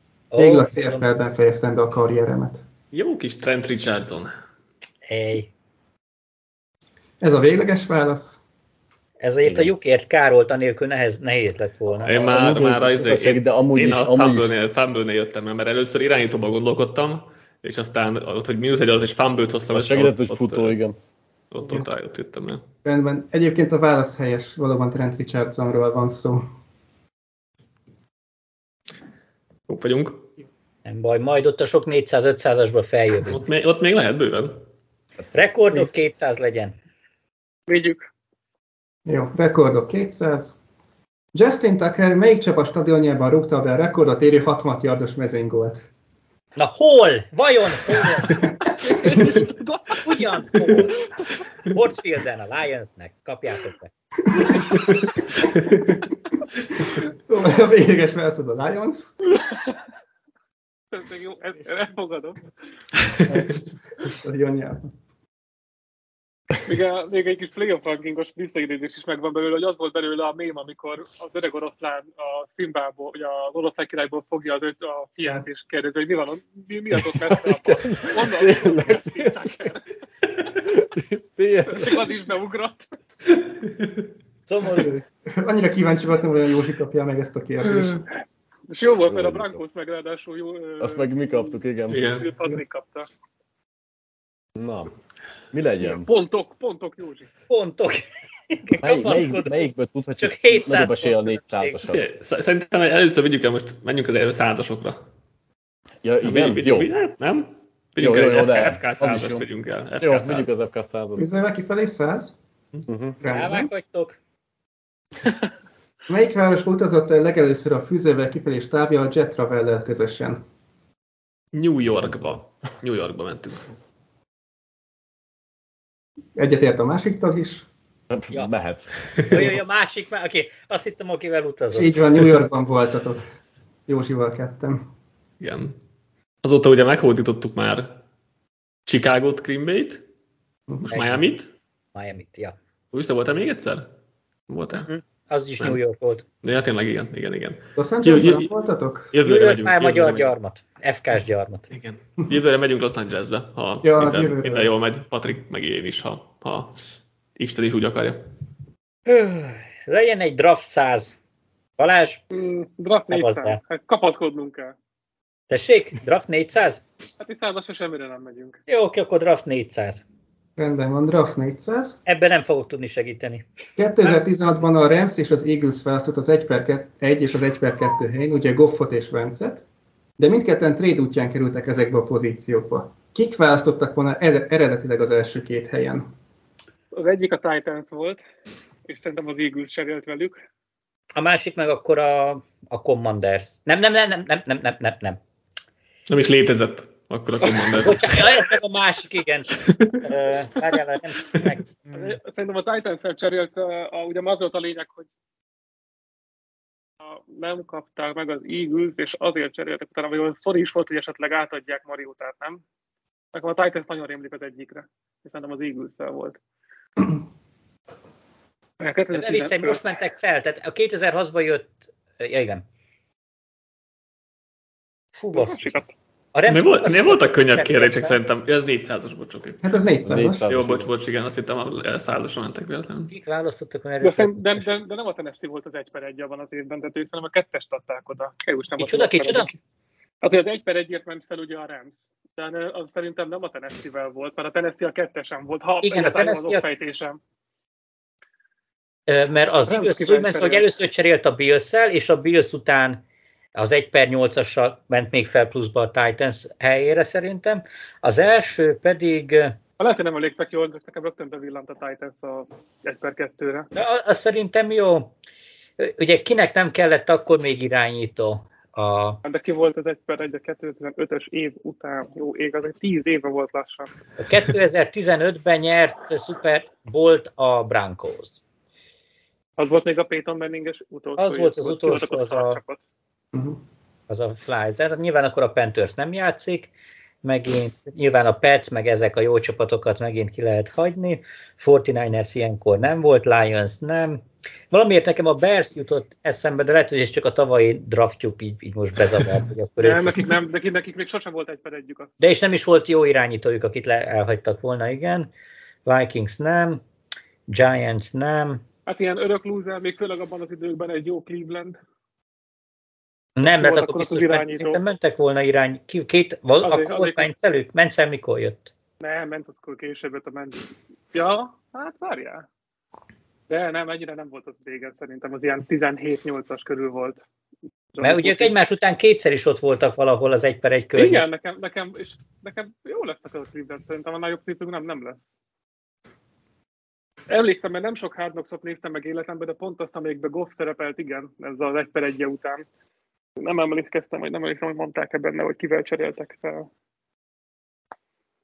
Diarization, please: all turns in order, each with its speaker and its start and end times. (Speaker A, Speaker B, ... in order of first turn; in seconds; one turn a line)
Speaker A: 0.3-1.1
Speaker B: 0.3-2.6
Speaker C: 2.9-4.3
Speaker A: 5.1-5.5
Speaker B: 7.2-8.4
Speaker A: 9.2-12.2
Speaker D: 9.4-9.7
Speaker C: 12.0-20.8
Speaker D: 12.1-14.5
Speaker D: 19.7-21.0
Speaker C: 21.5-22.6
Speaker B: 22.8-26.4
Speaker C: 29.7-30.2
Speaker A: 30.8-33.4
Speaker C: 33.3-34.6
Speaker A: 35.3-36.7
Speaker E: 37.7-38.0
Speaker B: 39.0-40.6
Speaker B: 41.3-45.9
Speaker A: 46.6-48.3
Speaker B: 48.2-48.7
Speaker E: 48.8-50.8
Speaker A: 50.0-50.9
Speaker A: 51.7-53.9
Speaker B: 54.2-55.5
Speaker B: 56.9-59.2
Speaker E: 59.4-59.8
Speaker E: 60.9-62.4
Speaker B: 63.2-64.9
Speaker E: 66.6-79.9
Speaker D: 77.5-79.5
Speaker D: 80.7-82.1
Speaker E: 81.7-82.9
Speaker C: 83.6-83.9
Speaker A: 84.5-85.0
Speaker B: 84.7-88.1
Speaker E: 88.7-93.1
Speaker D: 89.1-89.6
Speaker D: 90.8-92.0
Speaker C: 91.9-92.3
Speaker D: 94.5-94.9
Speaker D: 95.5-96.1
Speaker E: 95.9-97.3
Speaker A: 97.5-101.8
Speaker D: 98.8-102.1
Speaker C: 101.9-105.0
Speaker D: 106.0-106.9
Speaker C: 106.2-110.5
Speaker D: 108.0-109.5
Speaker D: 110.0-111.3
Speaker B: 111.2-112.3
Speaker D: 112.9-113.2
Speaker B: 113.2-113.7
Speaker A: 113.3-114.2
Speaker B: 116.1-120.4
Speaker C: 121.5-123.7
Speaker B: 126.3-127.7
Speaker D: 128.1-129.5
Speaker A: 129.3-131.9
Speaker B: 131.7-133.2
Speaker B: 133.9-134.8
Speaker C: 135.4-135.7
Speaker C: 136.4-138.0
Speaker C: 138.8-140.0
Speaker C: 140.8-141.5
Speaker A: 140.9-141.2
Speaker A: 141.9-142.6
Speaker C: 142.9-143.9
Speaker C: 144.5-144.9
Speaker A: 144.8-146.2
Speaker C: 146.4-148.5
Speaker B: 147.8-149.1
Speaker C: 149.1-150.3
Speaker A: 149.2-151.7
Speaker C: 151.7-156.8
Speaker B: 153.8-154.8
Speaker C: 157.4-158.2
Speaker A: 159.1-161.2
Speaker A: 161.8-162.2
Speaker E: 162.3-164.7
Speaker A: 163.1-163.6
Speaker A: 165.5-166.8
Speaker E: 167.2-168.6
Speaker A: 168.7-170.0
Speaker B: 170.6-172.0
Speaker A: 172.1-173.4
Speaker B: 173.8-179.6
Speaker B: 180.2-186.1
Speaker E: 186.9-188.2
Speaker E: 188.9-190.4
Speaker A: 191.1-195.2
Speaker C: 196.1-198.2
Speaker A: 197.8-202.1
Speaker C: 199.6-200.0
Speaker E: 201.9-205.1
Speaker E: 207.0-212.6
Speaker E: 213.3-216.4
Speaker E: 218.8-220.0
Speaker A: 219.1-222.6
Speaker A: 225.2-225.7
Speaker E: 225.3-225.9
Speaker A: 226.3-228.2
Speaker C: 226.5-229.6
Speaker B: 229.6-230.4
Speaker D: 230.0-230.9
Speaker C: 230.5-233.1
Speaker A: 233.1-234.6
Speaker E: 234.0-239.5
Speaker A: 238.8-239.5
Speaker E: 240.2-247.2
Speaker A: 245.8-246.6
Speaker A: 249.1-253.0
Speaker E: 249.7-250.7
Speaker A: 253.5-259.6
Speaker E: 259.8-263.7
Speaker A: 263.7-265.1
Speaker A: 265.8-269.2
Speaker E: 269.2-273.9
Speaker A: 274.2-278.4
Speaker E: 279.6-282.8
Speaker A: 281.2-282.6
Speaker B: 283.3-283.6
Speaker A: 284.1-286.7
Speaker A: 287.2-300.2
Speaker E: 299.8-302.1
Speaker A: 302.2-305.3
Speaker A: 305.8-306.8
Speaker A: 307.5-308.6
Speaker E: 308.9-311.8
Speaker A: 313.4-318.7
Speaker E: 313.4-314.8
Speaker E: 316.6-317.3
Speaker E: 319.0-322.4
Speaker E: 323.5-327.2
Speaker E: 327.9-328.5
Speaker A: 328.0-331.2
Speaker E: 330.9-335.2
Speaker E: 337.3-342.6
Speaker E: 343.4-346.7